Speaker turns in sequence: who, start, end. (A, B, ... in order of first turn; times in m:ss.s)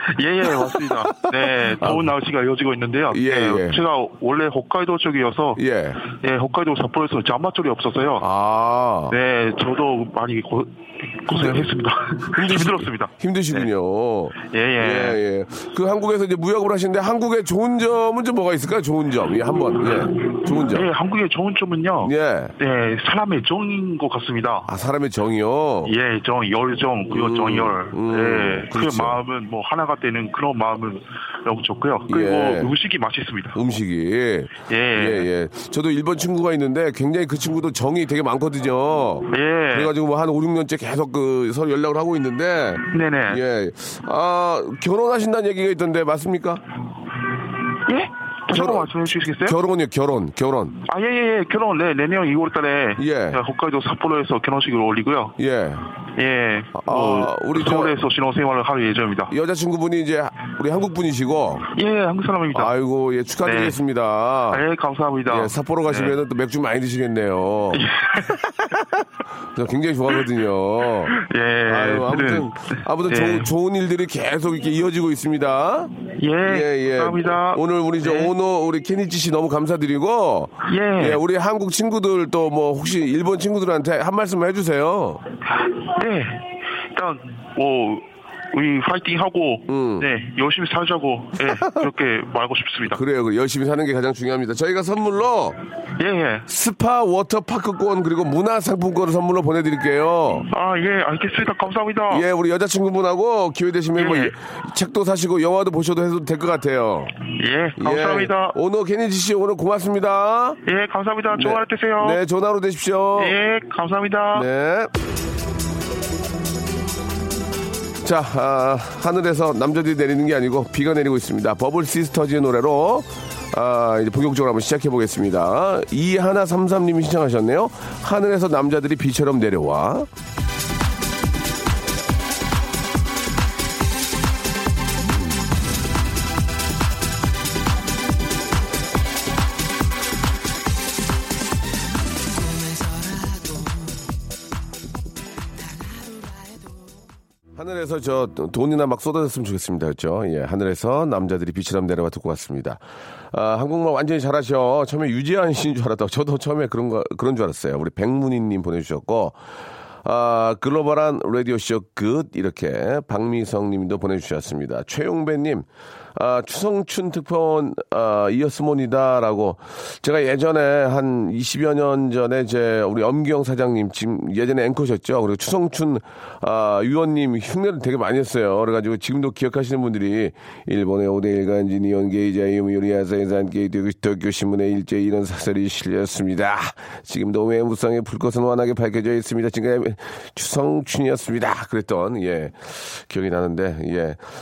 0:00.2-0:08.2 A
0:00.4-0:02.1 B
0:03.1-0:03.8 B
0:05.6-0:06.0 B
0:08.2-0:09.2 B
0:09.1-0:13.7 A
0:11.3-0:11.7 B
0:12.3-0:20.9 B
0:14.4-0:15.2 A
0:19.8-0:24.7 A
0:22.0-0:22.5 B
0:24.7-0:25.9 B
0:25.8-0:33.6 A
0:27.1-0:29.2 B
0:32.1-0:32.7 B
0:33.5-0:46.6 B
0:34.7-0:35.2 A
0:39.3-0:39.9 A
0:42.9-0:43.4 A
0:47.8-0:49.6 A
0:48.5-0:50.8 B
0:50.8-0:55.3 A
0:53.0-0:53.4 B
0:55.4-0:55.8 B
0:56.2-0:59.3 A
0:56.7-0:57.9 B
0:59.3-1:01.6 B
1:01.7-1:02.7 A
1:02.5-1:04.6 B
1:03.4-1:03.8 A
1:04.5-1:06.2 A
1:05.3-1:25.2 B
1:07.7-1:08.4 A
1:11.1-1:13.5 A
1:16.2-1:18.3 A
1:20.7-1:21.2 A
1:25.6-1:33.0 A
1:29.7-1:30.1 B
1:31.4-1:31.9 B
1:32.8-1:35.6 B
1:36.0-1:36.5 A
1:36.5-1:40.5 B
1:40.5-1:42.2 A
1:42.1-1:47.2 B
1:44.0-1:44.3 A
1:47.4-1:48.5 A
1:47.8-1:50.6 B
1:50.6-1:52.2 A
1:51.3-1:53.4 B
1:53.2-1:54.5 A
1:54.3-1:54.9 B
1:58.0-2:10.1 B
2:27.6-2:39.4 B
2:40.0-3:14.2 B